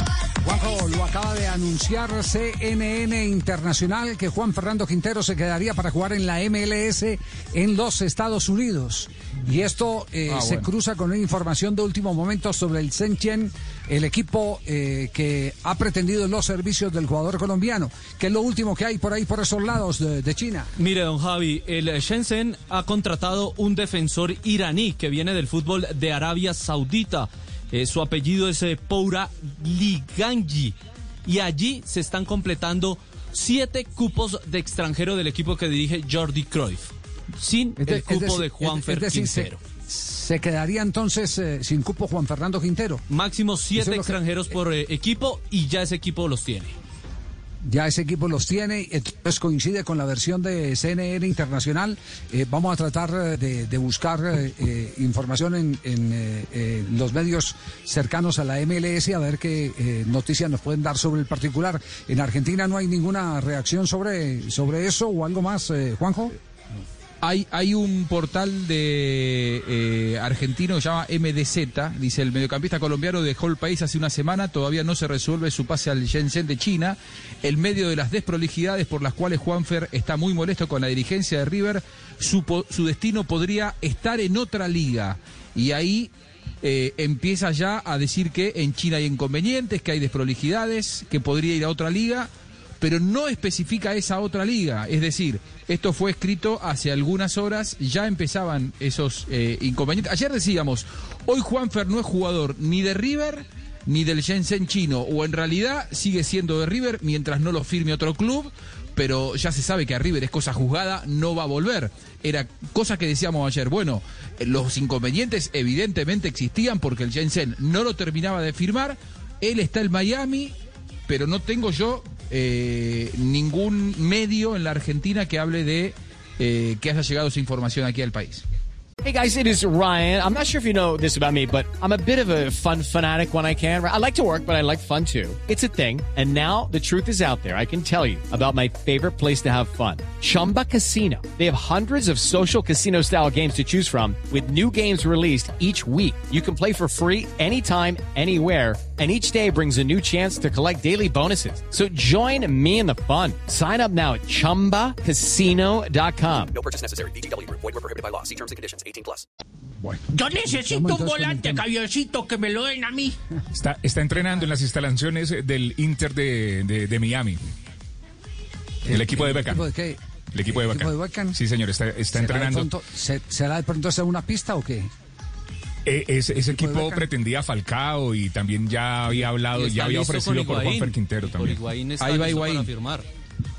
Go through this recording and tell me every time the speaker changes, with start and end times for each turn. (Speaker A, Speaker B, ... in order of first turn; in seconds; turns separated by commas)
Speaker A: 0.4-20.7, Speaker B: 10.3-10.7, Speaker C: 20.8-30.7, Speaker C: 31.2-39.6, Speaker A: 37.8-43.0, Speaker C: 43.1-46.7, Speaker A: 43.7-44.2, Speaker A: 47.6-66.3, Speaker B: 67.2-86.1, Speaker B: 86.6-92.3, Speaker B: 92.8-120.5, Speaker B: 121.1-128.4, Speaker D: 129.0-156.5, Speaker E: 156.5-159.2, Speaker A: 159.8-161.6, Speaker F: 160.1-163.2, Speaker G: 163.5-167.4, Speaker G: 168.9-169.6, Speaker A: 168.9-171.4, Speaker G: 170.3-172.7, Speaker A: 172.1-174.9, Speaker G: 175.8-181.6, Speaker A: 176.5-177.1, Speaker C: 179.1-183.0, Speaker B: 182.0-182.7